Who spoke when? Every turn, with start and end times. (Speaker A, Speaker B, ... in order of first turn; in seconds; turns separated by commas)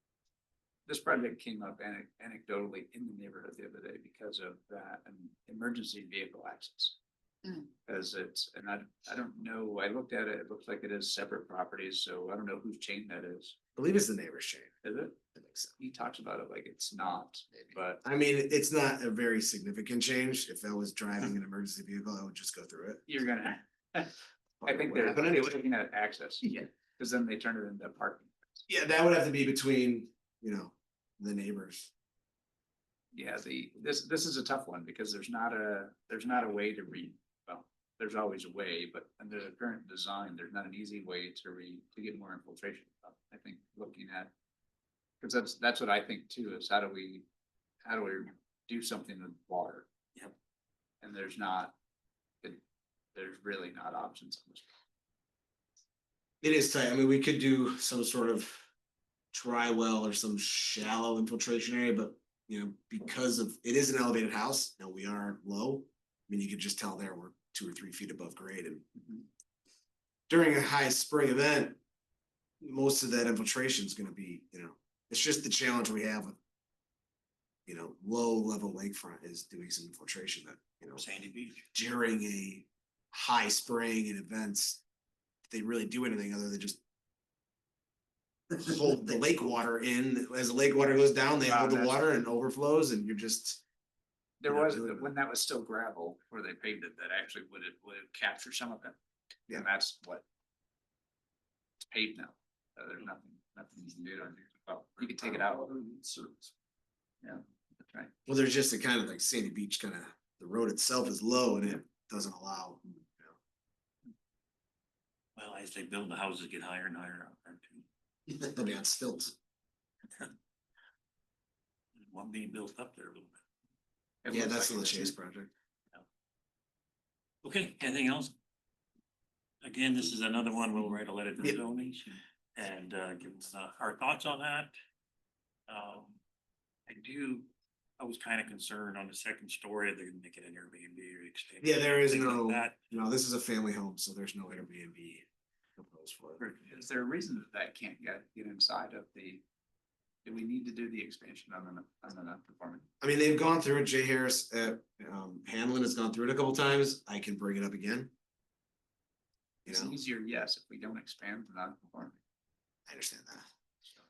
Speaker A: 0.9-7.0, Speaker A: 7.5-13.6, Speaker B: 13.8-14.7, Speaker A: 14.8-15.2, Speaker B: 15.3-15.7, Speaker A: 15.8-18.0, Speaker B: 18.0-23.1, Speaker A: 23.1-28.6, Speaker B: 24.6-25.6, Speaker B: 28.7-31.9, Speaker A: 33.1-44.3, Speaker A: 45.2-47.2, Speaker A: 47.9-49.9, Speaker A: 51.0-51.8, Speaker A: 53.1-54.7, Speaker B: 56.4-58.6, Speaker B: 59.3-68.9, Speaker B: 70.3-71.8, Speaker B: 72.6-76.3, Speaker B: 77.7-81.0, Speaker C: 81.0-81.6, Speaker B: 81.7-84.8, Speaker B: 85.5-86.8, Speaker B: 88.5-93.6, Speaker A: 91.4-92.0, Speaker A: 94.4-99.0, Speaker B: 94.5-95.1, Speaker A: 99.5-100.2, Speaker A: 101.8-105.7, Speaker C: 105.8-106.4, Speaker A: 107.2-108.1, Speaker B: 108.2-113.4, Speaker C: 115.3-117.8, Speaker B: 118.3-119.3, Speaker C: 122.0-123.4, Speaker A: 124.2-125.1, Speaker B: 124.3-125.5, Speaker C: 127.4-128.3, Speaker C: 129.6-134.7, Speaker C: 135.7-136.2, Speaker C: 136.9-142.8, Speaker B: 141.6-145.2, Speaker B: 145.8-146.4, Speaker A: 146.4-149.4, Speaker A: 150.2-152.9, Speaker B: 153.0-158.1, Speaker B: 159.7-159.9, Speaker A: 159.7-162.2, Speaker B: 162.9-163.4